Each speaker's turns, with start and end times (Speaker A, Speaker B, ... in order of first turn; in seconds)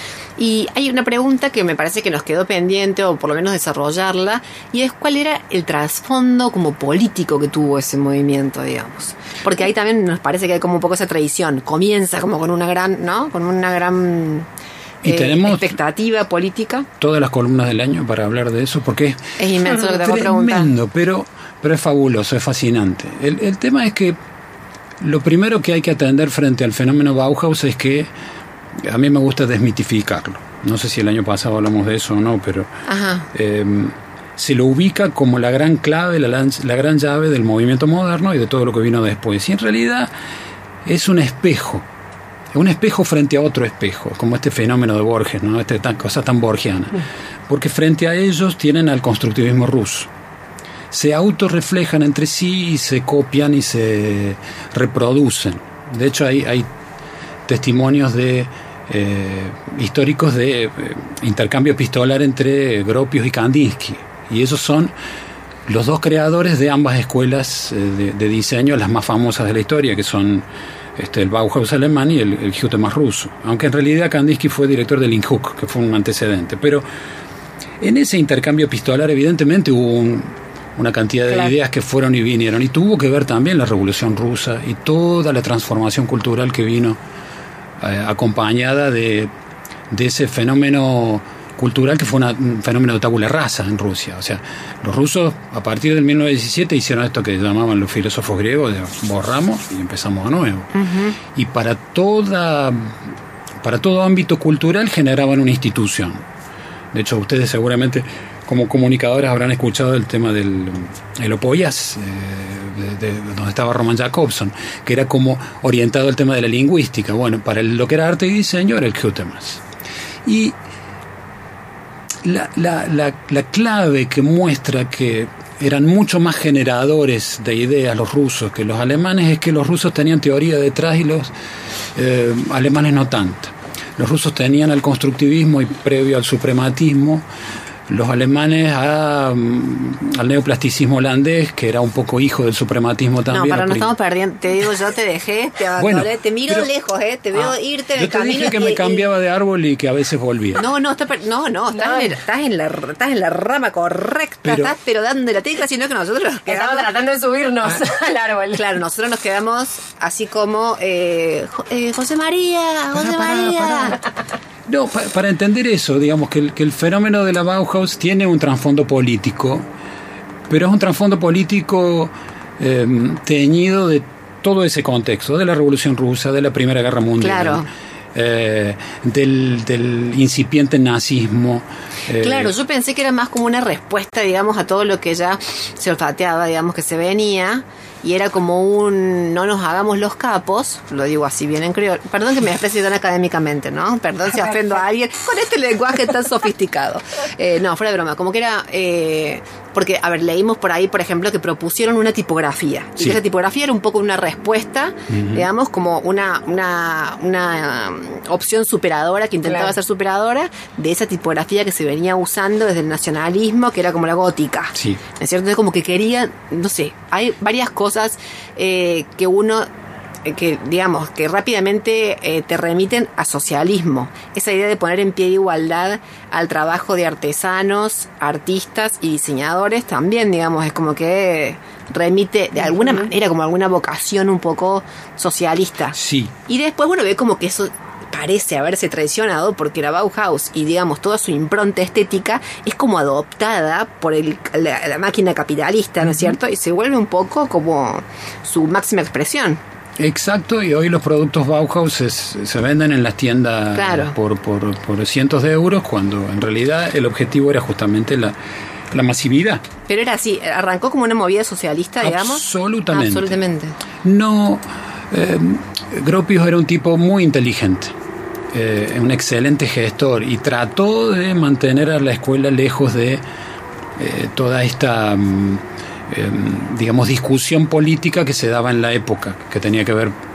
Speaker A: 0.4-14.5, 15.1-16.9, 19.4-20.7, 32.9-33.3, 100.8-101.2, 143.3-149.1, 150.6-156.9, 158.5-164.0, 177.2-177.7, 182.2-219.7, 220.2-236.0, 236.5-249.6, 253.8-254.2, 259.9-263.8
Speaker B: 15.0-15.7, 17.0-19.2, 19.8-24.2, 25.0-28.1, 28.8-32.7, 33.3-40.1, 40.9-41.9, 42.5-50.1, 50.9-56.7, 57.5-64.9, 65.7-70.5, 71.0-76.8, 77.8-87.0, 87.8-89.3, 89.9-100.7, 101.3-103.0, 103.6-106.2, 106.9-119.6, 120.2-120.5, 122.2-131.3, 131.9-137.2, 137.9-143.9, 145.8-146.7, 147.3-150.6, 154.4-154.7, 163.0-164.0, 164.7-169.7, 170.5-182.5, 205.1-205.5, 235.9-236.3, 246.1-246.3, 250.0-258.4, 258.9-259.6, 262.0-263.4, 264.0-267.9, 268.5-273.2, 274.0-280.1
Speaker C: 81.3-81.5, 151.7-152.1, 156.5-158.6, 209.4-209.7